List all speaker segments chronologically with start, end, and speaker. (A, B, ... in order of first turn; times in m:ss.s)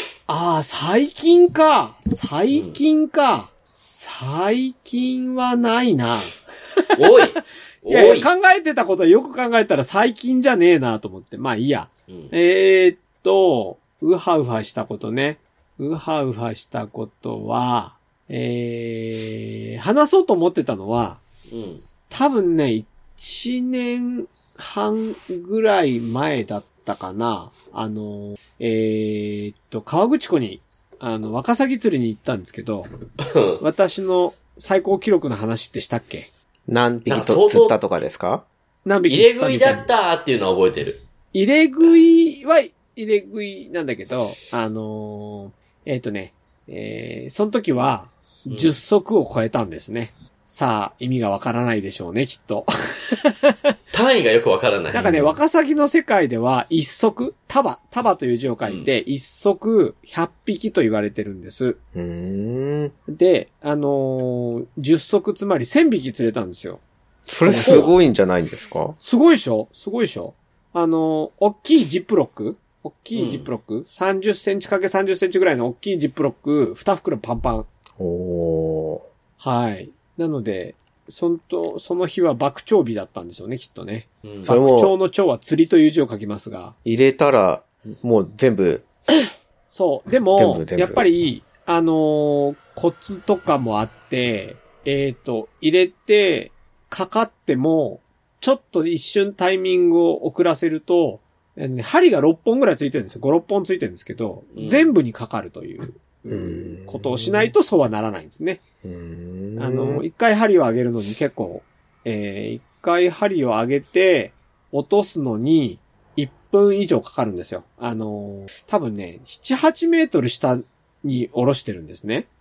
0:00.3-0:07.2 A
0:02.5-0:02.8 B
0:07.0-0:08.3 B
0:07.9-0:21.2 A
0:21.5-0:21.8 B
0:22.1-0:32.9 A
0:33.2-0:33.6 B
0:33.6-0:36.3 A
0:36.7-0:38.4 C
0:37.1-0:37.8 B
0:38.8-0:39.9 A
0:39.1-0:41.0 B
0:41.3-0:53.7 A
0:48.5-0:48.8 B
0:53.9-0:55.4 B
0:54.9-1:01.8 A
1:02.0-1:03.0 C
1:03.1-1:06.8 A
1:07.3-1:09.0 C
1:07.4-1:08.0 A
1:07.6-1:07.9 B
1:09.0-1:17.7 A
1:13.1-1:13.5 B
1:18.0-1:19.0 C
1:19.4-1:26.8 A
1:24.2-1:24.5 B
1:24.5-1:24.9 C
1:26.8-1:28.9 C
1:29.7-1:48.6 A
1:30.4-1:31.0 C
1:44.6-1:44.9 B
1:46.3-1:47.5 C
1:48.8-1:50.0 C
1:49.6-2:02.3 A